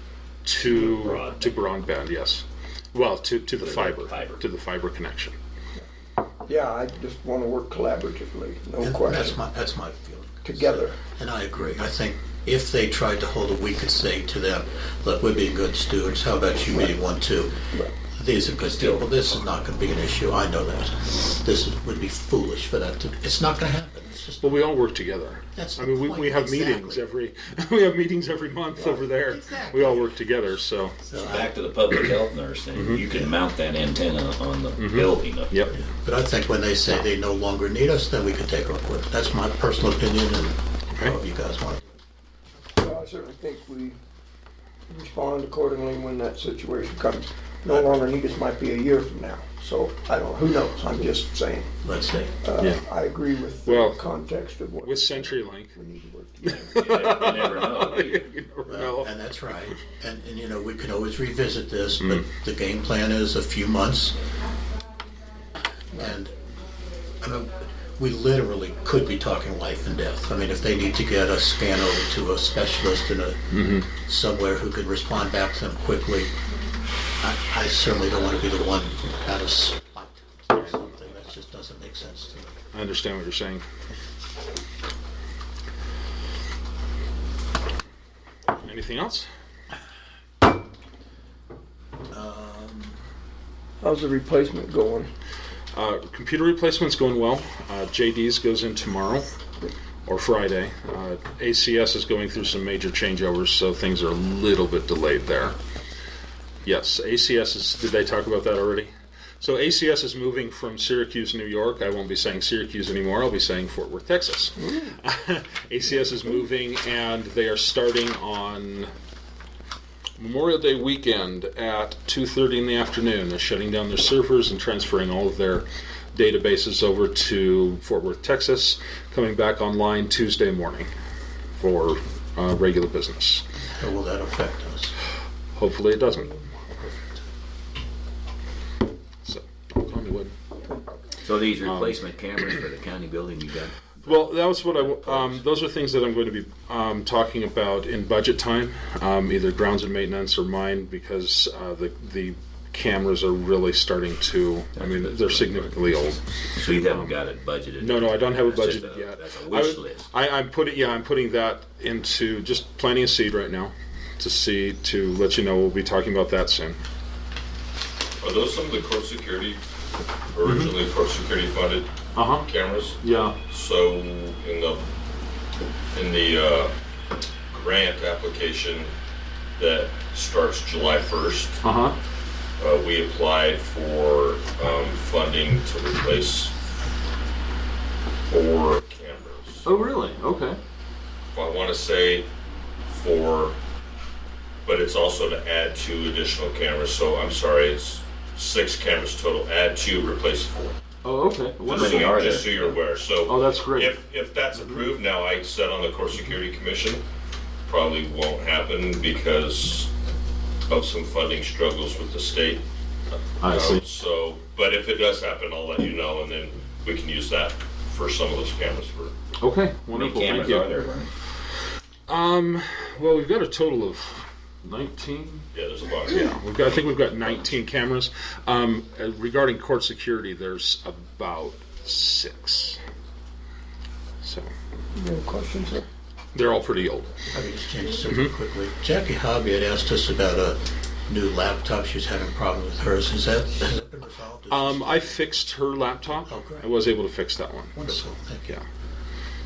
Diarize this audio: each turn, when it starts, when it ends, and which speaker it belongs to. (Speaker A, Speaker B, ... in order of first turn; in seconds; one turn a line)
Speaker A: 0.4-5.3
Speaker B: 0.6-1.6
Speaker B: 3.6-4.5
Speaker C: 6.4-9.4
Speaker D: 8.8-17.6
Speaker C: 10.4-11.0
Speaker D: 18.1-24.7
Speaker B: 18.6-19.1
Speaker A: 24.4-30.9
Speaker D: 25.5-27.0
Speaker D: 28.8-30.4
Speaker D: 31.0-31.6
Speaker B: 31.2-35.6
Speaker A: 32.8-33.0
Speaker D: 33.1-33.4
Speaker A: 34.8-35.7
Speaker D: 35.7-41.8
Speaker C: 42.8-44.0
Speaker C: 44.9-51.7
Speaker D: 47.6-48.0
Speaker D: 51.8-52.4
Speaker C: 52.4-56.8
Speaker A: 52.6-52.9
Speaker A: 53.6-54.0
Speaker A: 54.8-55.7
Speaker A: 56.4-59.7
Speaker B: 56.6-58.2
Speaker D: 58.6-64.2
Speaker D: 65.9-66.3
Speaker D: 67.2-76.3
Speaker A: 73.5-73.9
Speaker D: 77.2-82.5
Speaker A: 82.7-83.6
Speaker A: 88.6-89.3
Speaker D: 92.1-93.0
Speaker C: 93.8-95.1
Speaker A: 95.7-99.3
Speaker A: 100.0-105.5
Speaker A: 106.6-118.9
Speaker A: 120.2-130.9
Speaker A: 131.6-133.4
Speaker D: 133.8-134.9
Speaker A: 135.5-136.3
Speaker D: 136.8-137.1
Speaker A: 139.2-140.3
Speaker B: 141.2-145.4
Speaker A: 141.6-142.0
Speaker A: 144.0-157.2
Speaker B: 154.8-156.0
Speaker B: 156.5-160.1
Speaker A: 157.8-166.8
Speaker E: 168.2-169.6
Speaker E: 170.3-174.8
Speaker A: 170.4-170.7
Speaker A: 172.1-172.5
Speaker A: 173.0-173.3
Speaker E: 175.9-176.7
Speaker E: 177.5-178.9
Speaker E: 179.6-181.6
Speaker A: 181.6-181.9
Speaker E: 182.6-186.5
Speaker E: 188.3-189.7
Speaker A: 189.6-190.6
Speaker E: 191.3-192.3
Speaker E: 192.9-193.5
Speaker E: 194.6-200.8
Speaker A: 201.0-202.7
Speaker E: 201.7-207.0
Speaker B: 201.7-202.7
Speaker A: 203.2-203.9
Speaker A: 204.5-204.8
Speaker E: 207.7-209.9
Speaker E: 210.7-219.1
Speaker A: 213.4-213.8
Speaker A: 219.4-220.7
Speaker B: 219.9-221.1
Speaker A: 222.1-225.4
Speaker E: 225.5-226.3
Speaker A: 226.1-232.8
Speaker A: 234.2-234.5
Speaker C: 234.9-235.8
Speaker A: 236.3-237.2
Speaker D: 237.3-245.1
Speaker A: 244.5-248.6
Speaker D: 246.2-246.7
Speaker D: 247.7-248.6